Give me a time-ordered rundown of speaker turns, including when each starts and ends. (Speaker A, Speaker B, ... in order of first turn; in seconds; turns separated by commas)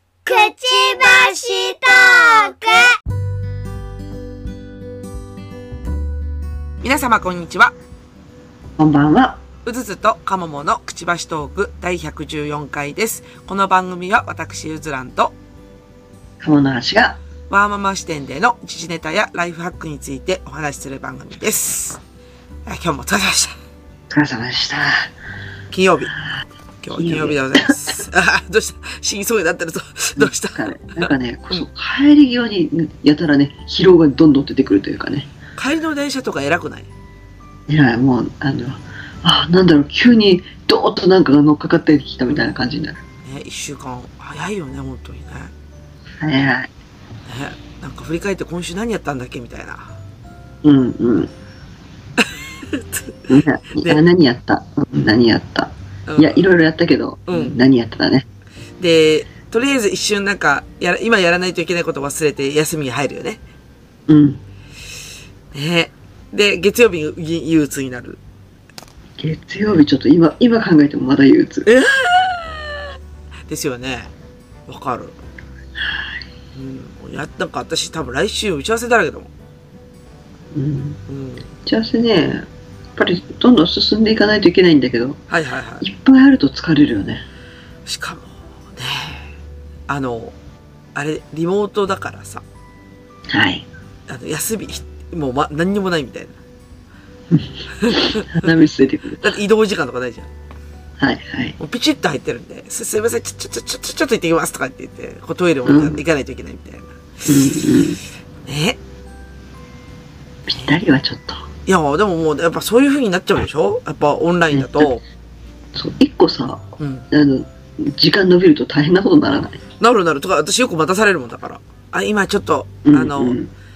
Speaker A: 0.2-2.9, Speaker B: 6.8-7.7, Speaker C: 8.8-9.4, Speaker B: 9.6-15.3, Speaker C: 16.4-17.2, Speaker B: 17.5-22.0, Speaker B: 22.6-23.5, Speaker C: 24.1-25.1, Speaker B: 25.7-26.1, Speaker B: 26.8-31.6, Speaker C: 26.9-27.9, Speaker C: 30.2-35.3, Speaker B: 35.5-36.9, Speaker C: 37.7-43.0, Speaker B: 43.2-45.5, Speaker C: 46.2-46.7, Speaker B: 47.3-49.9, Speaker C: 50.6-51.3, Speaker B: 52.2-54.0, Speaker C: 53.3-58.2, Speaker B: 56.1-56.5, Speaker B: 57.3-57.5, Speaker B: 58.8-63.4, Speaker C: 64.1-64.4, Speaker B: 65.5-68.2, Speaker C: 69.2-71.7, Speaker B: 71.6-72.9, Speaker B: 73.5-74.1, Speaker B: 74.7-75.2, Speaker C: 75.8-76.2, Speaker B: 76.5-79.3, Speaker C: 80.5-81.0, Speaker B: 81.1-81.5, Speaker C: 81.6-85.2, Speaker B: 85.3-85.8, Speaker C: 85.8-87.2, Speaker B: 87.8-89.3, Speaker B: 89.9-90.3, Speaker B: 90.9-92.4, Speaker C: 93.3-93.7, Speaker B: 94.1-96.3, Speaker C: 97.3-99.3, Speaker B: 97.8-98.5, Speaker B: 99.2-100.3, Speaker C: 101.0-101.5, Speaker B: 101.6-106.9, Speaker C: 105.7-106.0, Speaker C: 107.2-108.0, Speaker B: 108.5-108.8, Speaker C: 110.5-111.5, Speaker B: 111.7-115.0, Speaker C: 114.5-114.9, Speaker C: 115.7-119.6, Speaker B: 116.8-117.0, Speaker B: 119.8-123.4, Speaker C: 122.8-123.5